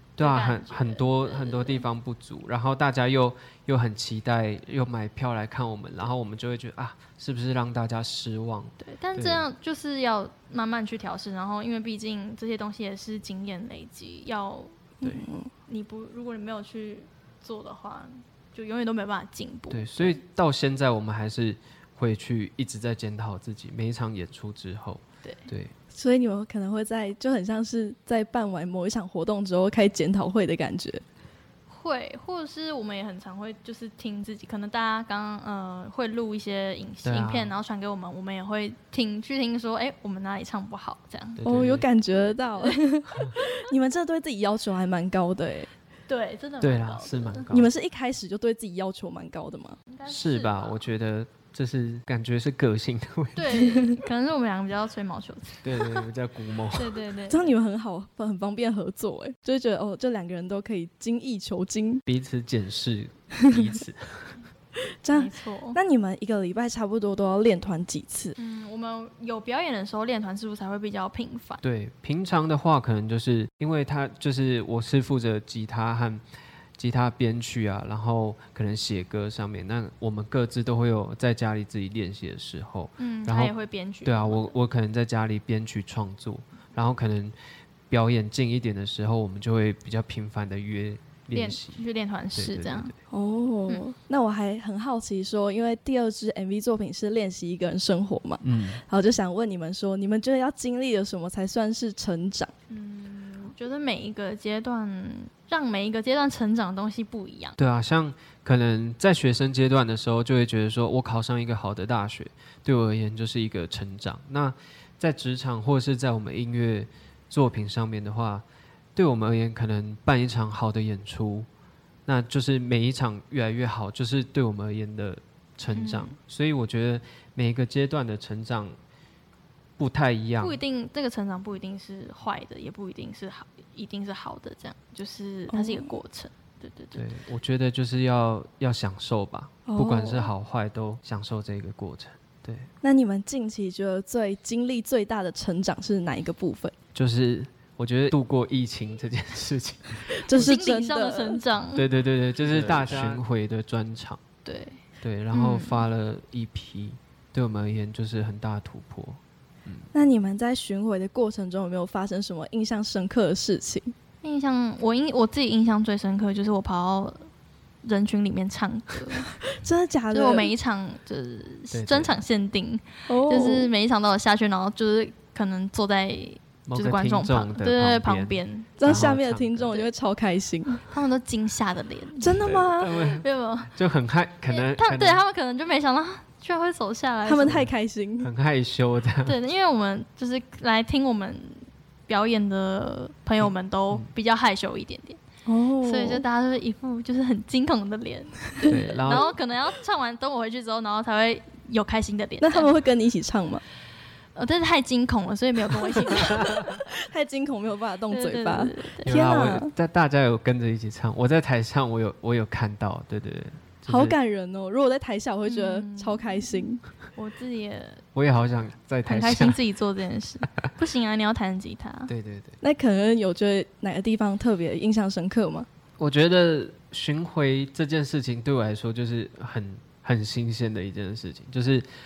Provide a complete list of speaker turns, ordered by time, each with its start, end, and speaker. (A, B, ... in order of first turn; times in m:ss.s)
0:00.2-0:09.4 A
0:00.2-0:01.8 B
0:08.8-0:14.9 B
0:15.0-0:15.5 C
0:15.7-0:20.2 B
0:19.7-0:25.7 A
0:25.9-0:31.0 C
0:31.7-0:41.4 B
0:37.0-0:37.5 A
0:41.4-0:41.9 A
0:41.4-0:45.7 C
0:46.1-0:47.5 B
0:46.6-0:47.7 A
0:47.5-0:49.8 C
0:49.9-0:50.8 B
0:50.1-0:53.6 A
0:53.4-0:56.1 B
0:53.6-0:53.8 C
0:55.6-0:57.0 A
0:56.7-0:57.5 B
0:57.3-1:02.0 C
1:02.1-1:04.4 A
1:04.9-1:08.4 C
1:05.1-1:05.8 B
1:08.4-1:11.6 B
1:11.6-1:16.2 A
1:16.8-1:27.4 A
1:23.0-1:24.6 B
1:27.9-1:31.8 A
1:31.3-1:32.9 B
1:32.4-1:33.0 A
1:33.1-1:42.5 C
1:38.4-1:38.8 A
1:42.7-1:47.6 B
1:47.6-2:01.5 A
2:02.1-2:08.8 A
2:05.7-2:06.2 B
2:09.8-2:10.6 A
2:10.4-2:17.0 B
2:15.5-2:16.0 C
2:17.0-2:22.7 A
2:19.7-2:20.3 C
2:22.8-2:26.8 C
2:26.9-2:30.5 A
2:30.2-2:31.4 C
2:30.3-2:31.9 B
2:31.8-2:34.2 A
2:34.4-2:34.8 B
2:35.0-2:39.9 A
2:35.3-2:35.8 B
2:39.9-2:44.0 C
2:44.2-2:47.3 B
2:47.8-2:49.3 B
2:49.4-2:50.5 C
2:50.1-2:58.8 B
2:51.7-2:52.2 A
2:53.1-2:53.7 C
2:56.7-2:59.7 A
2:58.8-3:00.8 C
3:00.9-3:03.7 B
3:02.2-3:03.0 C
3:02.4-3:05.2 A
3:04.5-3:07.6 B
3:07.2-3:08.3 C
3:08.2-3:09.4 A
3:09.2-3:15.2 B
3:13.4-3:14.1 A
3:15.5-3:16.2 C
3:15.8-3:22.7 B
3:18.7-3:19.3 C
3:18.7-3:19.3 A
3:22.4-3:23.6 C
3:24.4-3:26.5 B
3:26.2-3:29.7 C
3:26.4-3:26.7 A
3:28.1-3:29.1 B
3:29.0-3:34.2 A
3:33.9-3:36.8 C
3:35.4-3:38.0 B
3:38.2-3:39.6 A
3:39.0-3:42.1 B
3:42.1-3:42.6 A
3:42.6-3:45.7 C
3:46.0-3:51.9 A